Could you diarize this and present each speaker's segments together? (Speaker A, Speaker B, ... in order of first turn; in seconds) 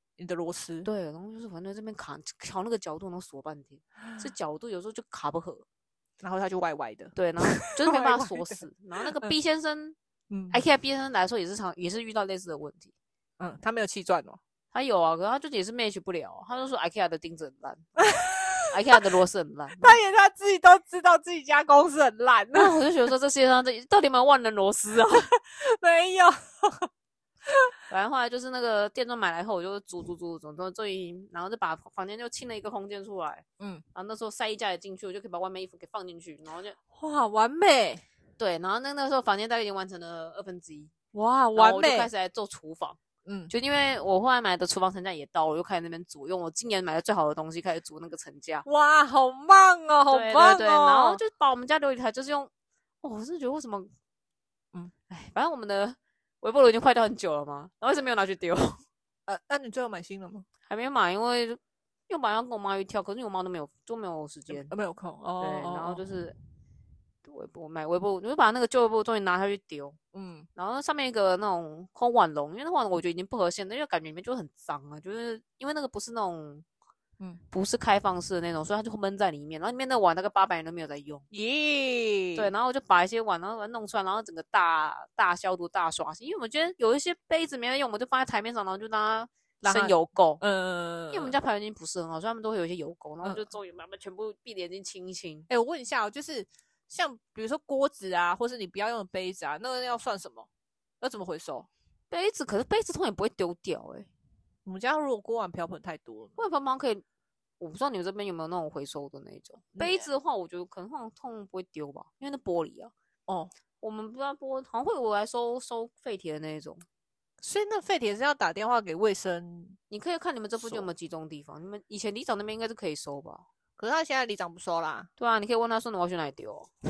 Speaker A: 0.2-0.9, 6.2-8.7, 10.3-10.6, 13.4-14.4, 18.1-18.7, 19.8-22.7, 25.5-26.9, 33.6-33.8, 37.0-38.0, 41.1-42.1, 43.3-43.5, 48.7-51.2, 59.3-60.5, 64.5-66.0, 70.1-70.5, 81.3-82.5, 89.7-91.3, 95.5-100.5, 101.0-101.7, 104.7-106.4, 109.8-110.1, 117.4-119.8, 120.6-120.9, 123.8-125.1
Speaker B: 0.8-5.6, 7.2-10.0, 10.5-12.9, 14.7-18.2, 18.7-20.0, 22.5-25.3, 27.9-36.8, 38.4-40.9, 41.6-43.0, 43.5-48.7, 50.1-52.5, 53.0-53.9, 55.1-58.8, 60.7-64.7, 65.4-66.4, 67.2-70.0, 70.5-76.7, 77.5-81.2, 82.4-90.4, 91.1-95.5, 102.1-104.1, 106.4-107.0, 107.6-112.9, 113.8-116.8, 119.9-123.5, 125.2-126.7